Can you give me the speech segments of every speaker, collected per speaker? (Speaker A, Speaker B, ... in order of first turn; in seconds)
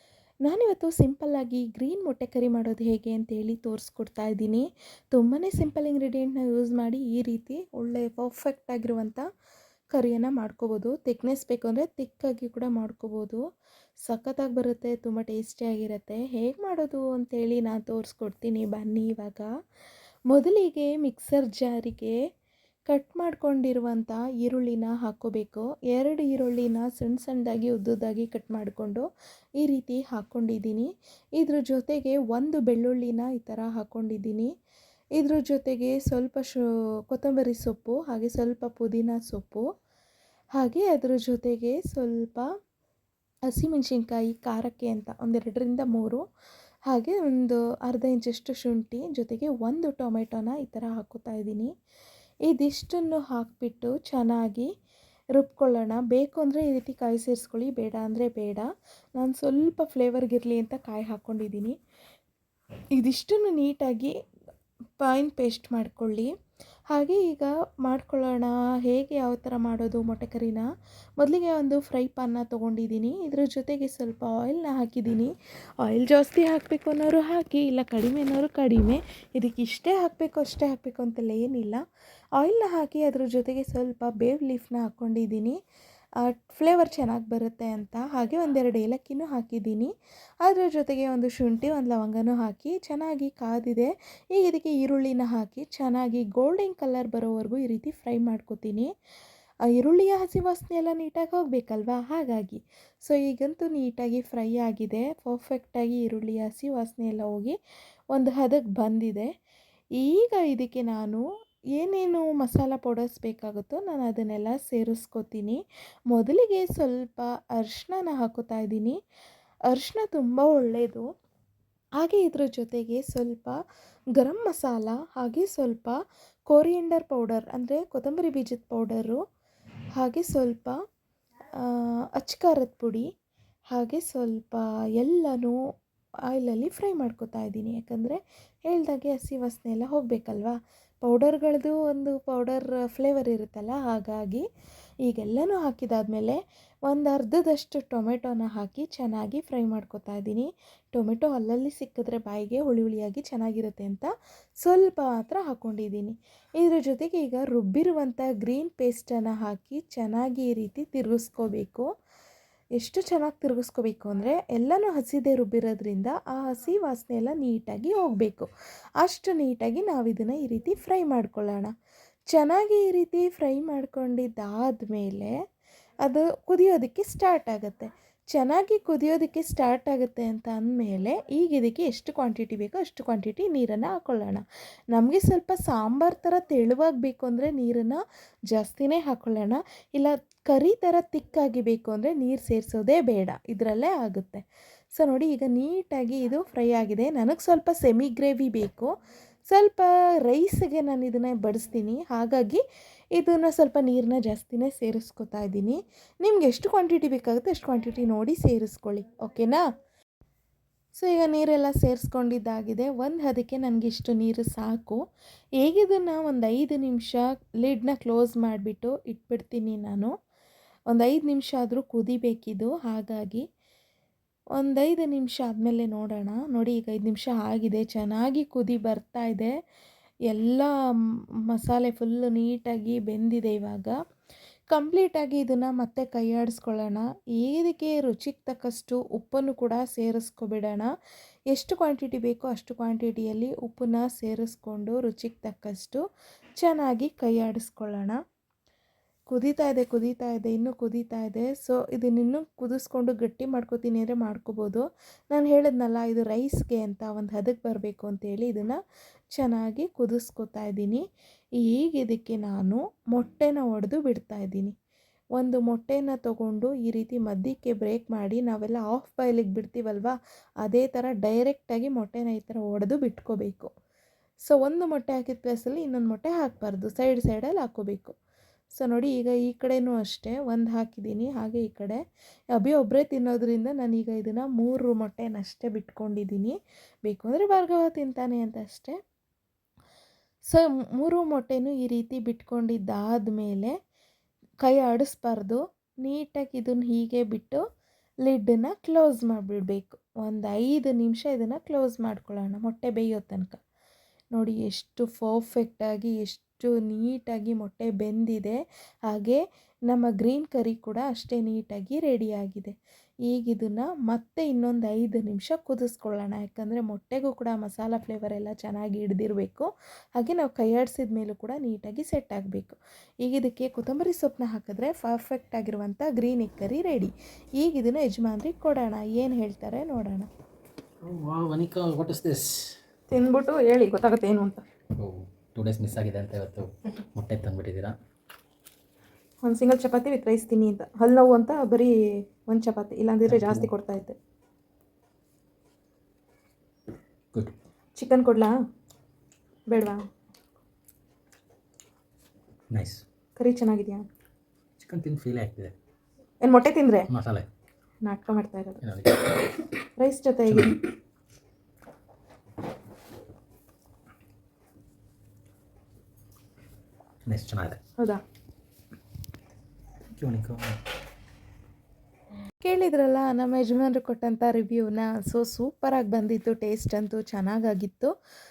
Speaker A: 0.4-9.2, 9.9-13.4, 14.1-19.5, 20.3-22.2, 22.9-29.1, 29.6-34.5, 35.2-39.6, 40.6-42.5, 43.5-46.2, 46.9-51.7, 52.5-54.7, 55.3-61.7, 63.0-64.1, 65.0-66.3, 66.9-70.6, 71.2-81.8, 82.4-85.6, 86.2-89.9, 90.4-98.9, 99.7-107.5, 108.1-109.3, 110.0-111.2, 111.8-115.6, 116.1-119.0, 119.7-121.0, 122.0-123.6, 124.2-126.0, 126.5-129.2, 129.9-130.8, 131.6-133.1, 133.7-135.6, 136.3-144.4, 145.0-154.1, 154.6-161.8, 162.8-168.5, 169.0-171.7, 172.3-175.3, 176.0-188.0, 188.5-194.4, 194.9-198.9, 199.5-202.6, 203.2-209.6, 210.9-215.0, 215.6-220.1, 220.9-223.4, 224.6-229.5, 230.3-230.7, 231.5-233.9, 234.7-240.9, 241.5-246.0, 246.6-248.2, 249.3-258.8, 259.3-261.0, 261.6-264.7, 265.4-273.7, 274.4-278.1, 278.7-282.0, 282.6-288.9, 290.5-293.7, 294.6-297.6, 298.2-303.6, 304.3-312.7, 313.3-330.3, 333.1-334.6, 339.4-341.9, 342.5-344.1, 348.0-348.5, 349.7-350.0, 353.4-354.0, 356.4-357.0, 358.0-358.8, 360.0-360.7, 372.6-378.1
Speaker B: 331.0-332.7, 335.0-337.9, 343.2-343.7, 352.7-353.0, 354.8-355.7, 357.1-357.5, 358.8-359.5, 360.5-360.8, 367.3-367.8, 370.1-370.8